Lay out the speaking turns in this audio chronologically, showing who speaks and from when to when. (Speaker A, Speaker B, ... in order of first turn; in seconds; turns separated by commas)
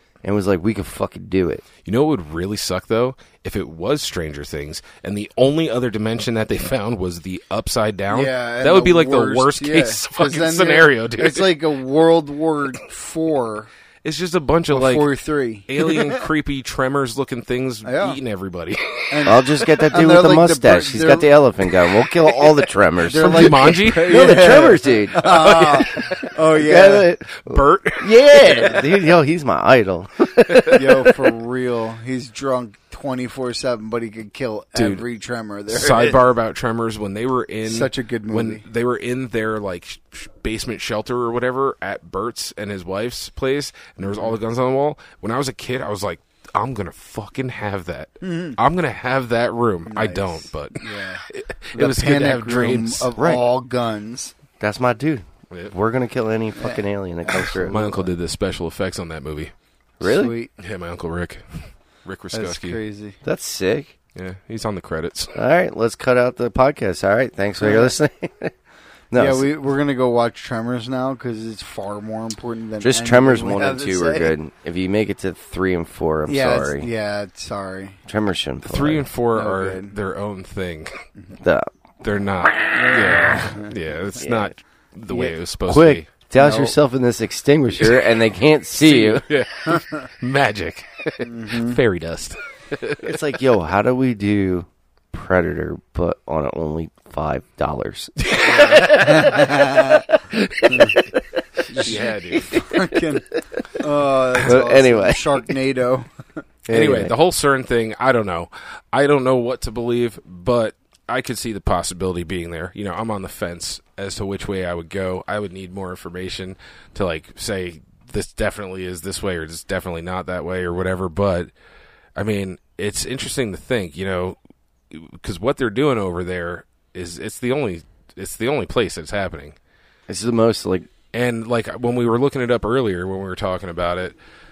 Speaker A: 0.2-1.6, Speaker B: 1.8-11.5, Speaker C: 8.1-13.7, Speaker B: 14.0-15.1, Speaker C: 14.7-16.2, Speaker B: 15.7-19.3, Speaker C: 17.8-18.2, Speaker C: 19.1-21.3, Speaker A: 19.2-25.4, Speaker C: 23.0-27.1, Speaker B: 23.2-24.3, Speaker B: 25.2-26.3, Speaker A: 26.5-30.8, Speaker B: 27.4-28.9, Speaker B: 30.4-31.1, Speaker C: 30.7-36.2, Speaker B: 34.8-35.0, Speaker B: 35.7-53.1, Speaker C: 37.6-38.6, Speaker C: 44.0-44.4, Speaker C: 48.2-48.6, Speaker C: 49.9-54.4, Speaker A: 53.1-53.4, Speaker A: 54.6-57.8, Speaker C: 56.5-58.1, Speaker B: 57.6-59.5, Speaker A: 60.0-60.4, Speaker C: 60.0-60.5, Speaker B: 60.6-62.8, Speaker C: 62.3-63.2, Speaker A: 63.2-63.9, Speaker B: 64.1-65.3, Speaker A: 65.3-68.5, Speaker C: 67.6-67.9, Speaker A: 69.1-69.5, Speaker C: 69.1-74.3, Speaker A: 72.8-76.9, Speaker C: 76.3-78.0, Speaker A: 78.1-79.0, Speaker B: 78.6-81.0, Speaker C: 79.3-79.9, Speaker A: 81.4-81.7, Speaker B: 82.0-86.0, Speaker C: 82.7-83.7, Speaker A: 84.2-84.5, Speaker A: 85.7-89.2, Speaker C: 86.4-86.7, Speaker B: 87.8-88.1, Speaker B: 88.7-93.2, Speaker C: 89.7-90.0, Speaker C: 91.2-91.8, Speaker A: 93.0-102.8, Speaker B: 98.2-99.4, Speaker C: 98.4-100.0, Speaker C: 100.7-101.0, Speaker B: 101.7-102.7, Speaker C: 101.7-106.1, Speaker A: 104.4-105.4, Speaker A: 106.7-107.1, Speaker B: 106.7-121.5, Speaker B: 122.2-124.4, Speaker B: 124.9-129.6, Speaker A: 130.1-130.9, Speaker B: 131.1-134.2